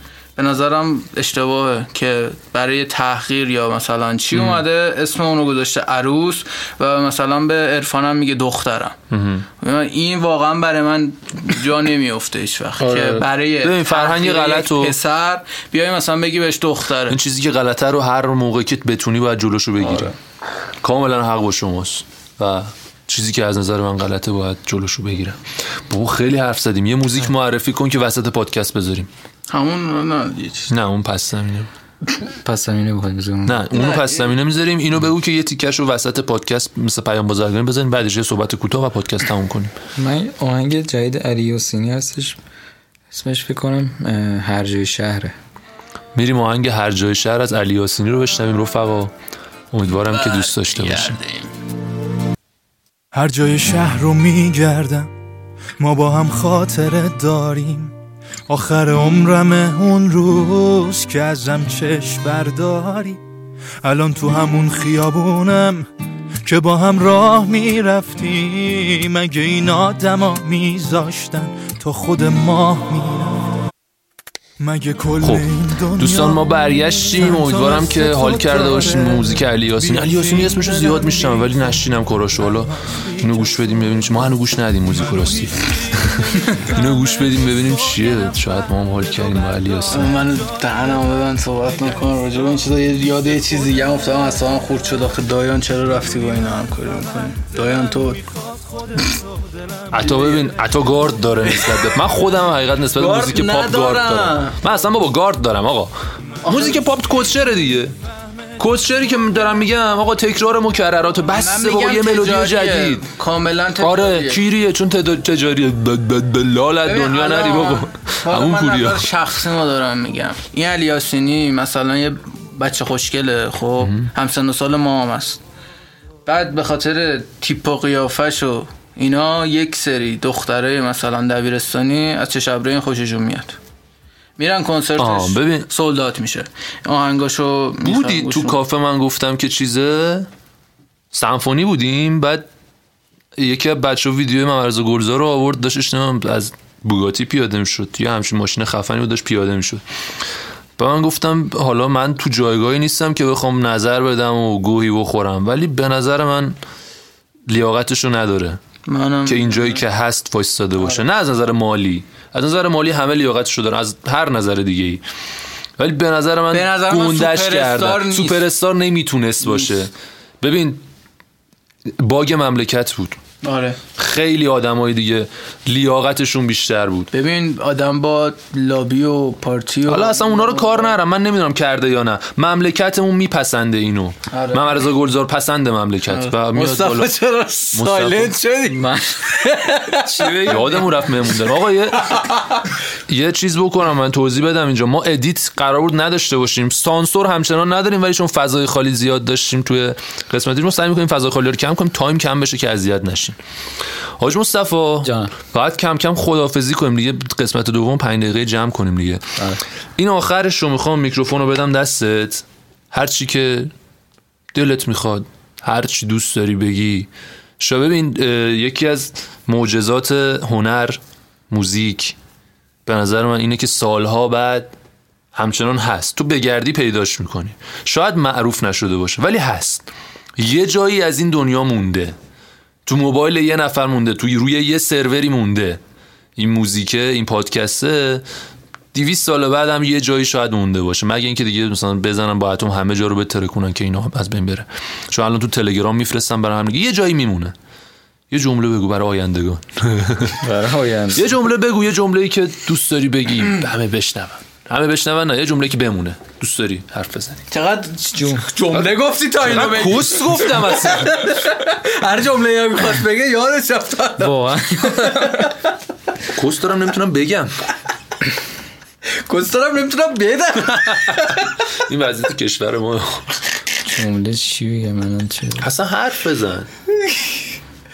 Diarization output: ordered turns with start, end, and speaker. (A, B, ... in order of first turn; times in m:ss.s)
0:00.4-0:09.0 A
0:04.3-0:04.6 B
0:09.1-0:09.4 B
0:09.6-0:17.2 A
0:12.8-0:14.9 B
0:17.1-0:20.1 B
0:20.8-0:29.1 B
0:29.5-0:30.7 A
0:30.7-0:31.7 B
0:32.2-0:33.7 C
0:33.4-0:39.7 B
0:33.7-0:34.3 A
0:40.0-0:42.4 C
0:43.1-0:45.3 C
0:46.1-0:49.1 B
0:49.7-0:51.2 B
0:50.1-0:51.5 A
0:53.1-0:55.1 D
0:55.8-0:57.9 D
0:58.5-1:03.2 D
1:03.8-1:05.9 D
1:06.4-1:13.5 D
1:14.6-1:24.3 D
1:15.2-1:30.1 B
1:24.9-1:26.2 D
1:29.9-1:38.2 A
1:39.9-1:47.9 B
1:41.5-1:41.8 A
1:43.0-1:44.6 A
1:46.4-1:46.8 A
1:48.6-1:53.0 B
1:51.3-1:54.4 A
1:53.8-1:59.1 B
1:56.8-2:05.4 A
2:03.8-2:04.1 B
2:06.2-2:13.6 A
2:14.4-2:18.6 A
2:15.0-2:15.7 B
2:17.8-2:20.3 B
2:21.1-2:22.5 B
2:23.4-2:29.8 B
2:30.8-2:36.6 B
2:37.5-2:38.6 B
2:38.8-2:39.8 A
2:39.2-2:45.0 B
2:45.8-2:50.8 B
2:46.5-2:48.5 A
2:51.9-2:53.2 B
2:53.4-2:53.8 A
2:54.0-2:57.1 B
2:57.1-3:00.9 A
2:59.9-3:07.1 B
3:04.3-3:04.8 A
3:06.1-3:10.7 A
3:07.7-3:08.4 B
3:08.7-3:09.2 C
3:09.9-3:10.9 C
3:10.4-3:12.2 B
3:13.1-3:23.4 B
3:24.2-3:29.3 B
3:25.0-3:25.3 C
3:30.0-3:33.7 B
3:34.5-3:37.1 B
3:37.6-3:42.2 B
3:42.8-3:44.7 B
3:45.3-3:49.8 B
3:50.4-3:52.2 B
3:52.8-3:55.8 B
3:56.4-3:58.2 B
3:58.9-4:07.5 B
4:08.3-4:10.4 B
4:10.4-4:11.4 C
4:11.1-4:17.4 B
4:17.5-4:24.4 A
4:18.1-4:18.5 C
4:19.4-4:21.2 B
4:24.2-4:25.5 C
4:25.0-4:25.4 A
4:26.3-4:27.5 B
4:29.1-4:31.5 A
4:31.8-4:33.3 B
4:33.8-4:35.7 C
4:35.6-4:36.7 B